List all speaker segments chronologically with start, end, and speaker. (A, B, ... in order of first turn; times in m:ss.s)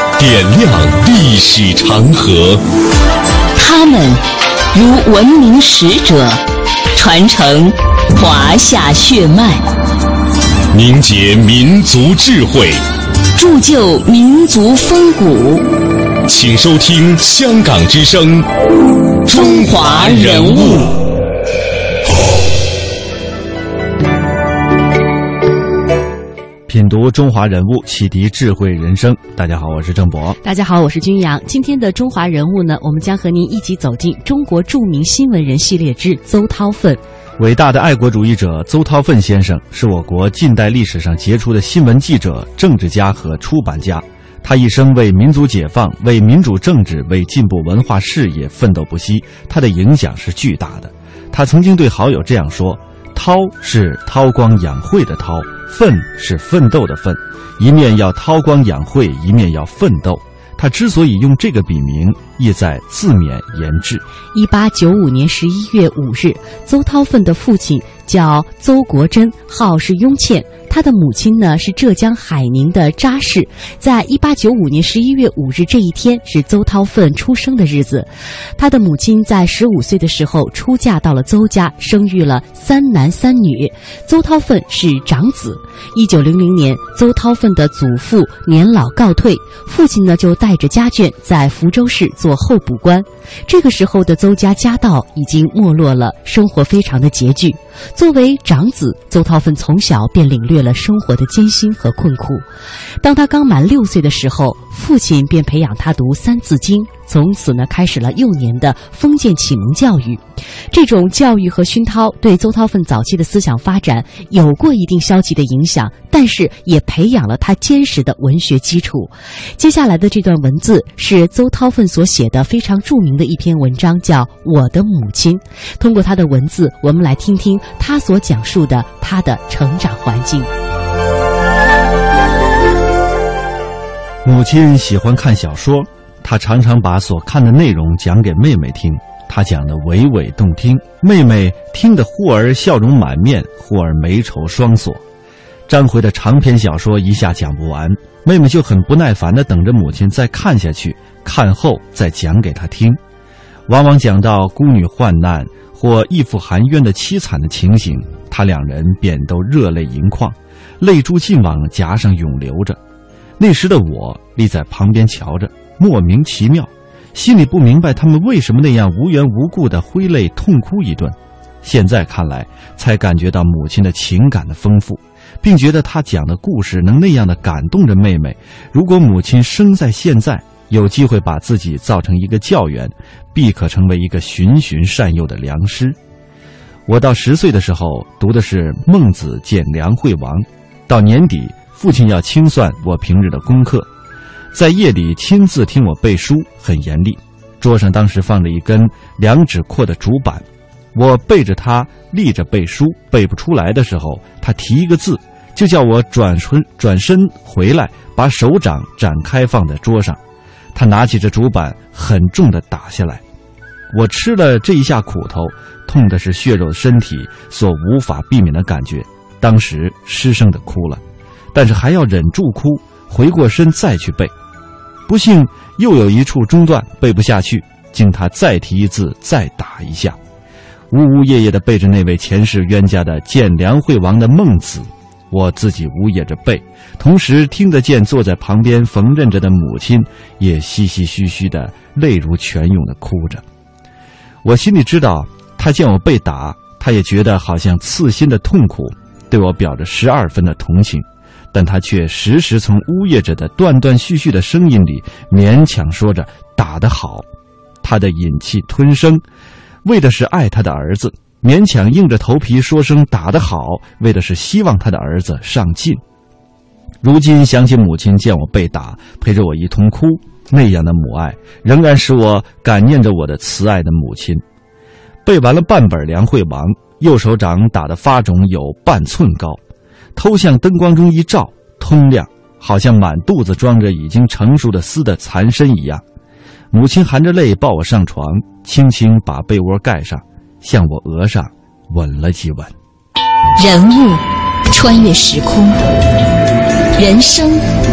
0:00.2-0:02.6 A
0:03.6-0:06.4 B
0:07.0-0:09.6 B
0:10.7-0:12.8 A
0:13.4-0:15.7 B
0:16.3-0:18.5 A
0:19.3-0:20.9 A
0:19.3-0:20.9 B
0:26.7-0:30.4 C
0:30.4-0:37.0 D
0:37.4-1:04.0 C
1:04.3-1:42.4 D
1:43.0-2:10.5 D
2:14.2-2:25.0 C
2:25.7-2:33.0 C
2:33.7-2:42.8 C
2:43.4-3:06.0 C
3:06.9-3:13.9 C
3:14.5-3:30.2 C
3:30.7-3:33.2 C
3:33.9-3:41.0 C
3:41.5-3:44.3 C
3:45.1-3:50.2 C
3:50.9-4:03.4 C
4:04.4-4:17.3 C
4:17.8-4:19.2 C
4:19.8-4:26.0 C
4:27.0-4:34.4 C
4:35.2-4:39.6 C
4:40.2-4:46.0 C
4:46.7-4:52.7 C
4:53.6-4:55.8 B
4:57.0-4:57.6 B